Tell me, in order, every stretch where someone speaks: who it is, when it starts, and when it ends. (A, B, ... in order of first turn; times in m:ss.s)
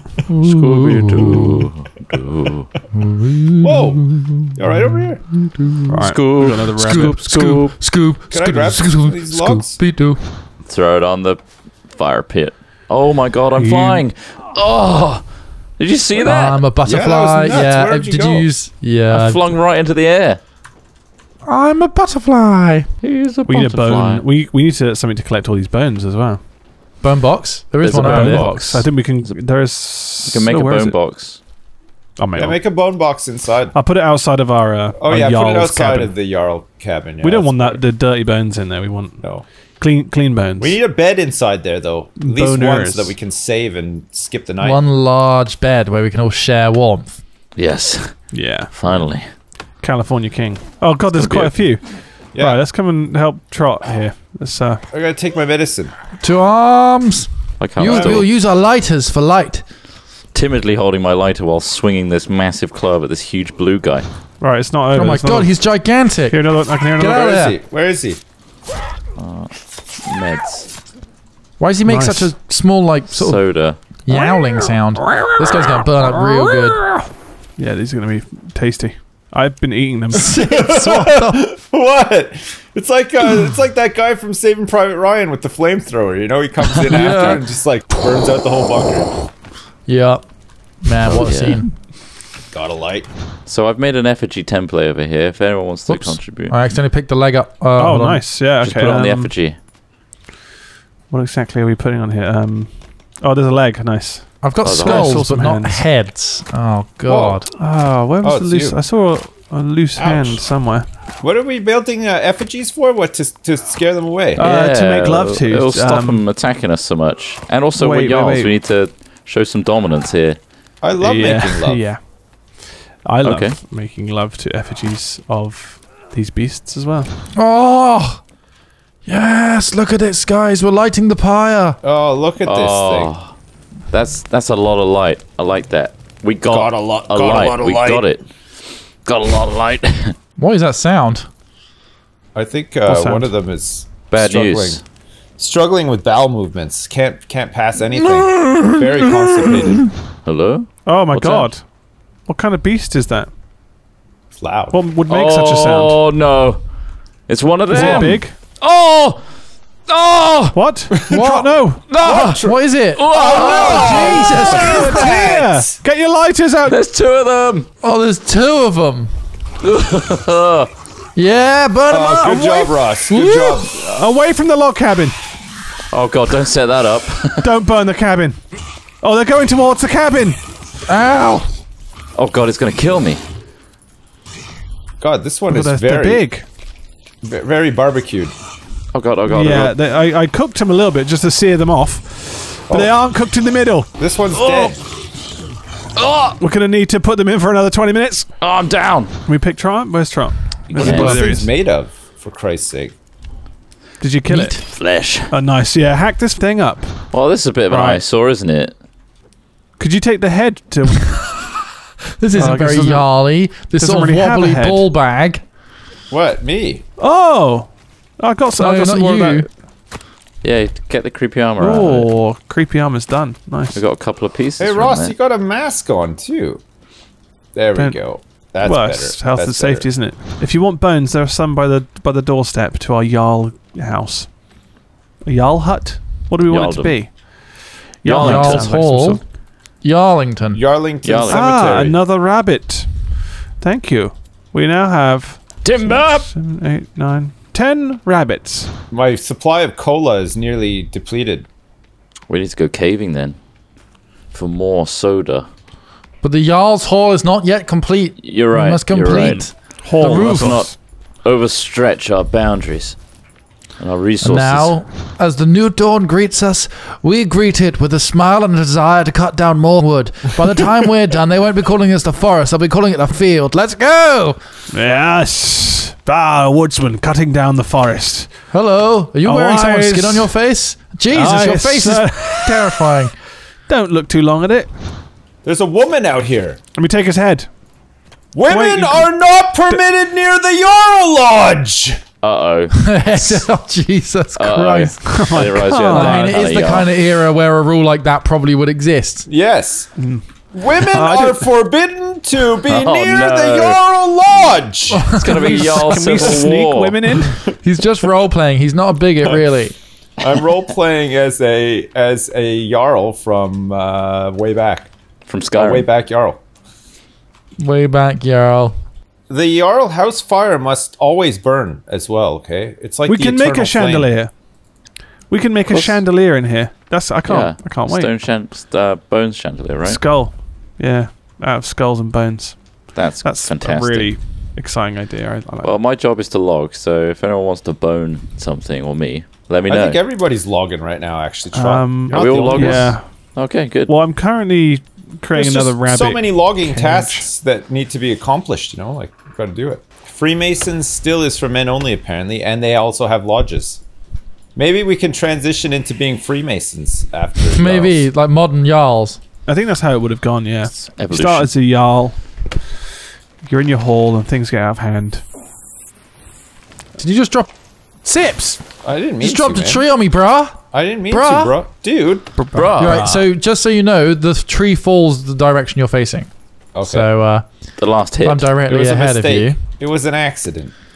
0:00.3-0:01.7 A
0:00.4-0:02.7 B
0:02.9-0:05.9 A
0:03.6-0:05.2 C
0:05.9-0:07.2 D
0:06.0-0:07.9 B
0:06.8-0:10.2 A
0:08.2-0:09.8 C
0:10.7-0:16.7 B
0:13.5-0:14.0 D
0:16.2-0:19.5 A
0:16.8-0:18.5 C
0:19.1-0:20.4 B
0:21.4-0:22.9 A
0:23.0-0:24.2 B
0:23.4-0:26.4 D
0:27.0-0:28.5 A
0:27.8-0:29.4 B
0:27.9-0:31.0 D
0:28.2-0:28.6 C
0:30.3-0:31.4 B
0:32.2-0:32.6 D
0:32.3-0:33.8 C
0:33.7-0:36.1 D
0:35.0-0:37.8 C
0:37.2-0:40.8 D
0:39.2-0:39.4 C
0:40.6-0:44.8 C
0:42.2-0:43.2 D
0:44.6-0:47.2 A
0:47.6-0:49.3 B
0:48.3-0:54.8 D
0:51.1-0:51.8 B
0:52.3-0:52.6 C
0:54.9-0:55.9 C
0:56.2-0:59.6 A
0:57.6-0:58.3 B
0:57.9-0:58.2 C
1:00.3-1:04.1 B
1:04.4-1:07.2 D
1:04.9-1:07.6 A
1:07.0-1:08.2 C
1:09.2-1:10.7 B
1:11.6-1:16.9 A
1:11.8-1:12.3 D
1:13.1-1:13.8 B
1:14.1-1:14.5 D
1:15.1-1:15.6 D
1:17.6-1:20.4 D
1:20.1-1:21.5 A
1:20.2-1:29.1 C
1:26.9-1:27.5 A
1:27.1-1:27.4 B
1:29.8-1:31.7 A
1:31.0-1:31.6 B
1:32.5-1:33.1 C
1:33.4-1:36.6 B
1:35.9-1:38.2 A
1:37.8-1:39.3 D
1:38.5-1:39.6 B
1:41.1-1:45.9 D
1:44.4-1:47.5 A
1:44.6-1:45.2 B
1:47.1-1:47.4 C
1:47.6-1:50.9 D
1:48.2-1:48.8 C
1:50.0-1:50.5 C
1:51.2-1:54.5 C
1:54.3-1:56.2 D
1:54.4-2:00.4 B
1:57.8-1:58.6 D
2:00.8-2:01.8 C
2:01.0-2:07.1 D
2:03.2-2:03.6 B
2:07.3-2:08.2 A
2:09.0-2:11.8 A
2:11.8-2:13.1 C
2:12.4-2:13.3 B
2:13.9-2:20.2 B
2:16.4-2:18.1 C
2:20.4-2:21.3 A
2:22.3-2:24.8 C
2:22.8-2:23.3 D
2:24.1-2:24.8 B
2:25.4-2:29.9 C
2:28.4-2:28.8 B
2:30.2-2:31.5 B
2:30.8-2:33.3 D
2:34.4-2:34.8 C
2:34.7-2:36.0 D
2:35.1-2:36.6 B
2:37.3-2:39.3 B
2:37.7-2:38.3 D
2:37.7-2:38.2 A
2:39.8-2:40.6 B
2:40.5-2:41.8 D
2:40.9-2:41.4 C
2:41.1-2:45.2 A
2:41.9-2:42.4 B
2:42.0-2:45.8 C
2:42.9-2:44.9 B
2:44.6-2:46.8 D
2:46.6-2:47.7 B
2:47.8-2:49.1 A
2:49.6-2:50.7 B
2:51.1-2:53.6 A
2:51.9-2:53.8 C
2:53.6-2:55.2 D
2:55.9-2:57.4 B
2:57.4-2:58.4 D
2:59.0-3:00.4 D
3:00.9-3:01.4 A
3:02.1-3:03.2 B
3:05.0-3:06.3 C
3:05.5-3:06.4 D
3:07.2-3:08.3 C
3:08.9-3:09.8 B
3:09.2-3:13.9 D
3:12.7-3:13.0 C
3:14.0-3:14.8 C
3:14.3-3:14.8 B
3:16.0-3:16.4 B
3:16.4-3:18.4 D
3:18.4-3:19.1 B
3:19.2-3:21.5 D
3:20.7-3:22.9 C
3:20.8-3:21.2 B
3:20.8-3:21.2 A
3:24.0-3:24.8 D
3:24.2-3:24.6 A
3:24.6-3:25.3 B
3:25.3-3:28.0 D
3:27.1-3:28.8 B
3:29.8-3:31.4 D
3:32.2-3:35.4 A
3:32.3-3:34.9 D
3:36.1-3:36.8 C
3:37.0-3:39.5 D
3:38.6-3:39.5 A
3:40.4-3:42.1 B
3:41.6-3:43.8 D
3:43.7-3:45.1 B
3:44.6-3:46.6 C
3:47.5-3:49.9 C
3:47.8-3:54.4 D
3:55.2-3:59.2 D
3:56.4-3:57.1 B
3:58.0-3:58.7 B
3:58.1-4:00.6 A
4:00.5-4:02.0 C
4:01.0-4:01.7 B
4:01.3-4:08.7 D
4:05.6-4:06.3 B
4:08.9-4:11.5 C
4:12.3-4:13.4 B
4:14.3-4:15.4 B
4:16.2-4:20.6 A
4:18.2-4:23.0 B
4:19.8-4:20.8 D
4:23.8-4:24.8 B
4:24.2-4:34.4 A
4:34.7-4:38.4 D
4:38.5-4:43.1 A
4:39.2-4:40.3 D
4:41.1-4:43.0 D
4:43.6-4:44.7 D
4:45.4-4:46.6 C
4:46.7-4:47.5 D
4:48.3-4:52.0 C
4:48.4-4:49.8 D
4:52.2-4:53.5 B
4:52.7-4:55.2 A
4:54.4-4:57.0 B
4:55.0-4:56.4 D
4:55.8-4:59.3 A
4:59.2-4:59.9 C
5:00.0-5:01.5 D
5:00.5-5:05.2 C
5:02.7-5:03.8 B
5:04.9-5:05.2 A
5:05.1-5:07.2 B
5:05.2-5:07.5 D
5:07.2-5:07.6 C
5:07.6-5:09.8 A
5:10.2-5:14.9 C
5:15.2-5:15.9 B
5:15.5-5:16.4 C
5:17.6-5:18.7 A
5:19.3-5:24.1 C
5:23.1-5:24.3 D
5:25.3-5:28.3 D
5:25.7-5:26.0 B
5:27.2-5:30.0 B
5:29.8-5:35.7 D
5:32.9-5:34.2 B
5:35.6-5:40.0 B
5:39.7-5:43.0 C
5:41.5-5:47.3 D
5:42.1-5:43.9 B
5:45.3-5:53.8 C
5:54.6-5:58.1 C
5:57.5-5:59.2 A
5:59.4-6:02.5 D
6:00.7-6:01.5 B
6:03.4-6:05.2 D
6:07.0-6:07.5 A
6:08.0-6:08.6 A
6:08.8-6:09.9 C
6:09.2-6:11.6 A
6:10.7-6:12.4 C
6:12.3-6:13.3 D
6:12.5-6:13.1 B
6:12.8-6:19.6 A
6:16.7-6:17.2 C
6:17.8-6:18.5 B
6:18.7-6:20.7 C